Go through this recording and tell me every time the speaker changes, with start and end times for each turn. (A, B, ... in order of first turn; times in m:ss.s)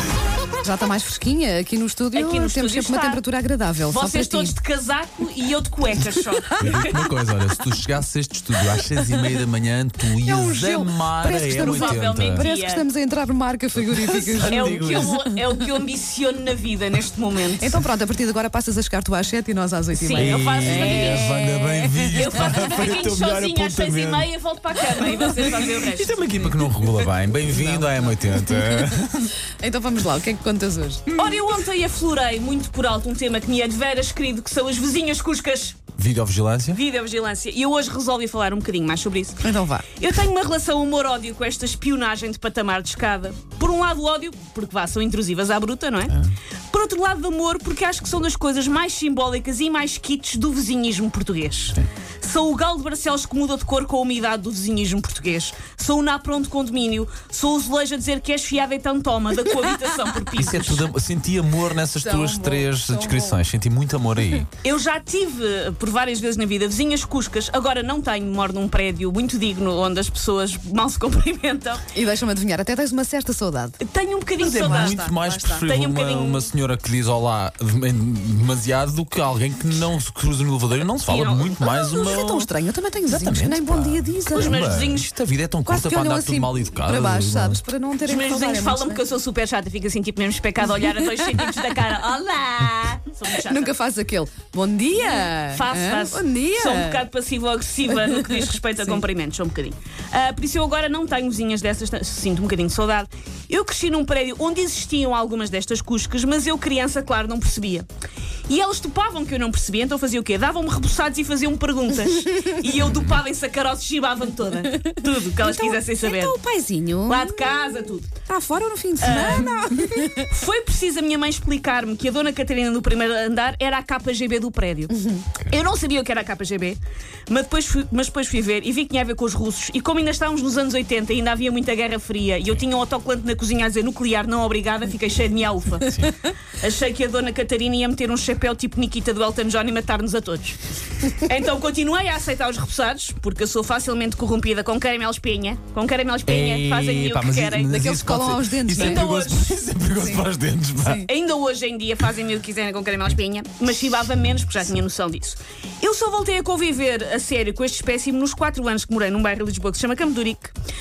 0:00.6-0:04.6 A
0:02.1-0:03.2 B
0:03.9-0:07.2 B
0:06.6-0:12.5 C
0:10.2-0:15.3 A
0:11.3-0:12.9 B
0:13.8-0:15.2 C
0:14.4-0:17.8 B
0:17.6-0:22.7 A
0:20.0-0:26.2 B
0:20.1-0:24.3 C
0:25.0-0:29.4 C
0:27.5-0:28.1 A
0:29.6-0:31.1 A
0:31.1-0:31.4 C
0:31.2-0:35.8 B
0:36.0-0:36.8 C
0:36.7-0:46.2 B
0:39.4-0:39.9 A
0:46.7-1:00.9 B
1:00.4-1:04.5 C
1:02.0-1:03.4 A
1:04.6-1:11.8 B
1:12.0-1:13.8 A
1:13.8-1:16.5 B
1:14.4-1:22.5 C
1:14.6-1:15.2 A
1:21.1-1:21.9 B
1:21.8-1:24.6 A
1:23.1-1:27.6 C
1:24.3-1:25.1 B
1:25.6-1:29.0 A
1:28.0-1:33.7 B
1:33.4-1:37.1 A
1:35.0-1:47.9 B
1:37.9-1:39.0 A
1:48.5-1:56.4 B
1:54.8-2:00.3 A
1:57.1-1:58.1 B
1:59.0-2:27.8 B
2:05.0-2:05.2 A
2:15.9-2:16.1 C
2:26.3-2:31.0 C
2:27.7-2:29.1 A
2:28.7-2:29.6 B
2:30.0-2:30.2 A
2:30.9-2:40.5 B